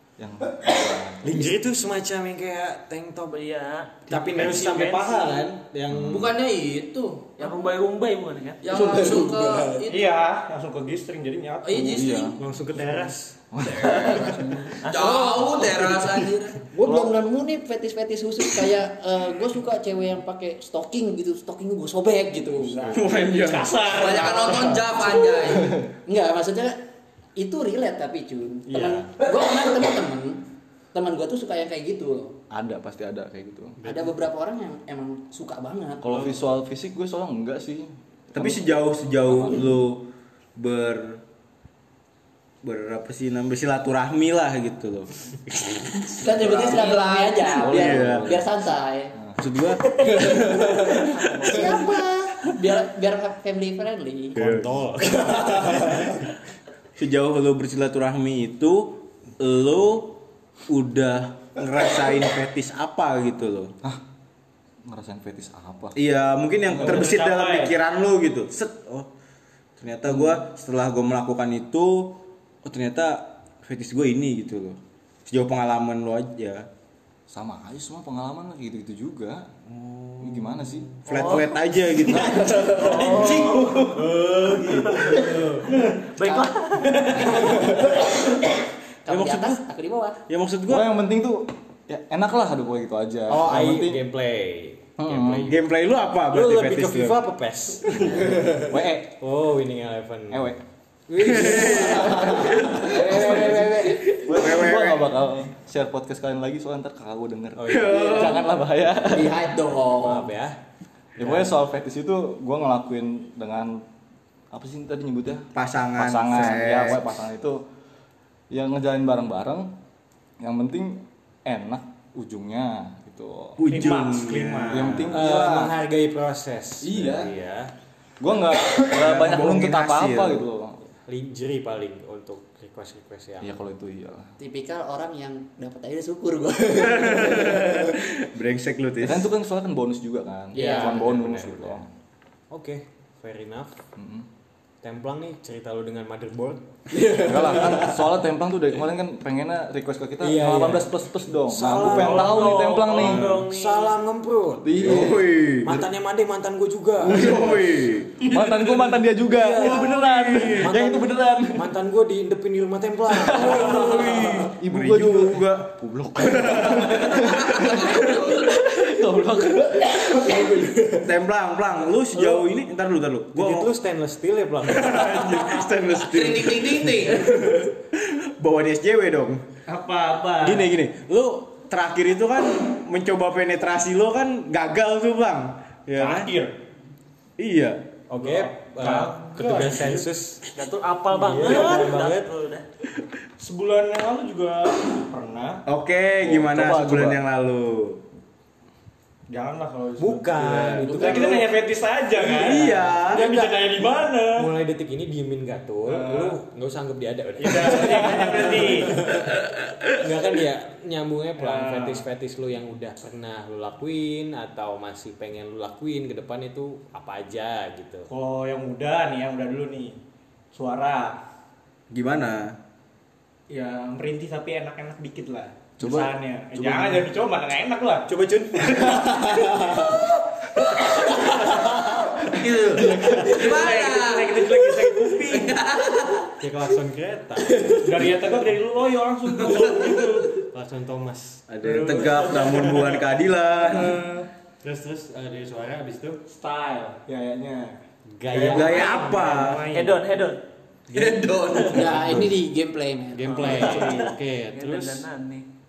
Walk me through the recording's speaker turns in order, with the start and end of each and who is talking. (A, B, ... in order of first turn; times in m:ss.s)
0:00.2-0:01.5 A
0:01.2-0:03.4 B
0:03.3-0:05.5 C
0:04.1-0:06.3 B
0:05.9-0:06.2 A
0:06.0-0:07.5 D
0:07.4-0:08.8 C
0:08.6-0:10.1 D
0:08.8-0:12.1 E
0:11.6-0:12.4 D
0:11.8-0:12.4 A
0:12.4-0:13.3 B
0:13.5-0:14.4 A
0:13.8-0:16.7 D
0:14.8-0:15.5 C
0:15.0-0:15.3 F
0:16.7-0:23.0 F
0:16.9-0:17.1 E
0:22.8-0:25.0 E
0:23.1-0:23.6 G
0:23.9-0:25.7 D
0:26.0-0:26.8 F
0:27.4-0:30.4 F
0:28.7-0:29.1 B
0:30.9-0:32.3 F
0:32.5-0:33.8 A
0:33.8-0:34.1 B
0:33.8-0:36.0 F
0:36.0-0:38.6 A
0:38.3-0:40.0 G
0:39.3-0:39.6 A
0:40.6-0:41.2 G
0:42.6-0:45.1 G
0:46.1-0:49.1 F
0:46.3-0:46.8 G
0:46.4-0:46.9 A
0:46.4-0:47.4 D
0:47.5-0:48.5 A
0:47.6-0:48.4 G
0:49.4-0:52.0 G
0:51.3-0:54.4 F
0:54.3-0:56.2 B
0:54.4-0:56.1 G
0:57.0-1:03.7 G
1:04.8-1:06.0 A
1:05.9-1:09.1 G
1:06.7-1:07.0 A
1:06.8-1:07.6 E
1:09.8-1:16.7 G
1:17.3-1:19.5 A
1:19.8-1:20.2 B
1:20.2-1:21.0 A
1:21.0-1:24.0 G
1:21.1-1:21.6 C
1:22.8-1:23.9 C
1:23.9-1:25.5 B
1:24.8-1:25.2 C
1:26.0-1:27.2 C
1:26.2-1:28.1 F
1:29.0-1:30.2 F
1:29.0-1:29.6 G
1:30.3-1:30.8 G
1:30.7-1:34.0 A
1:33.3-1:33.9 G
1:33.3-1:35.6 B
1:35.0-1:35.6 A
1:35.4-1:37.2 G
1:36.3-1:38.6 B
1:38.0-1:39.1 A
1:38.1-1:38.3 G
1:39.2-1:40.5 B
1:40.3-1:40.6 A
1:41.1-1:42.8 B
1:41.2-1:49.5 A
1:41.2-1:45.2 G
1:47.6-1:48.5 B
1:49.1-1:50.3 F
1:50.0-1:50.6 B
1:51.2-1:53.8 A
1:51.2-1:51.5 B
1:54.5-1:57.6 A
1:55.5-1:57.2 G
1:58.5-1:59.7 A
2:00.4-2:03.9 A
2:03.6-2:05.3 G
2:03.6-2:07.7 B
2:04.6-2:05.7 A
2:06.8-2:07.3 A
2:08.2-2:10.8 A
2:08.8-2:10.5 G
2:11.0-2:13.6 B
2:13.4-2:14.3 A
2:14.4-2:17.6 F
2:16.9-2:19.3 G
2:19.0-2:21.9 A
2:20.5-2:21.8 B
2:20.5-2:21.0 F
2:22.5-2:23.8 B
2:24.0-2:24.3 A
2:24.8-2:26.6 B
2:27.0-2:27.9 G
2:27.2-2:33.4 A
2:30.2-2:30.9 G
2:31.5-2:37.6 B
2:31.9-2:34.0 C
2:34.6-2:35.2 A
2:34.8-2:35.8 G
2:37.0-2:38.3 G
2:37.0-2:41.6 A
2:39.2-2:41.2 G
2:39.6-2:44.0 B
2:39.6-2:40.7 E
2:43.3-2:47.9 G
2:43.6-2:44.4 E
2:43.7-2:47.1 A
2:47.1-2:48.5 D
2:49.1-2:51.1 E
2:49.2-2:49.5 C
2:51.0-2:53.7 G
2:53.3-2:55.2 B
2:54.6-2:59.4 G
2:55.9-2:57.3 D
2:59.7-3:00.7 E
3:00.4-3:06.3 G
3:05.9-3:06.6 E
3:07.4-3:07.8 G
3:08.1-3:10.4 B
3:08.1-3:10.1 E
3:10.5-3:12.6 C
3:11.1-3:12.3 B
3:13.4-3:15.6 E
3:15.6-3:18.0 G
3:16.2-3:17.2 A
3:19.3-3:24.5 E
3:20.0-3:21.5 B
3:20.4-3:21.2 G
3:22.2-3:23.6 G
3:24.4-3:29.3 B
3:25.8-3:26.4 E
3:27.4-3:29.3 E
3:29.8-3:38.1 B
3:31.4-3:32.0 E
3:38.1-3:39.9 E
3:40.5-3:41.2 E
3:41.9-3:42.6 G
3:43.5-3:48.1 E
3:45.8-3:47.1 A
3:48.1-3:49.2 B
3:48.8-3:49.6 E
3:51.1-3:51.9 E
3:52.3-3:56.3 D
3:52.8-3:55.6 E
3:52.9-3:53.3 B
3:56.4-3:57.8 B
3:57.6-4:00.3 E
3:59.4-4:01.4 B
4:01.5-4:03.8 A
4:01.6-4:03.0 E
4:01.6-4:03.9 G
4:03.7-4:04.3 E
4:04.6-4:06.2 B
4:06.3-4:07.8 E
4:08.2-4:09.0 B
4:08.3-4:09.6 G
4:08.3-4:10.0 E
4:08.7-4:09.0 C
4:09.7-4:10.4 C
4:10.9-4:12.1 D
4:11.7-4:13.9 F
4:13.2-4:15.0 B
4:13.3-4:15.5 C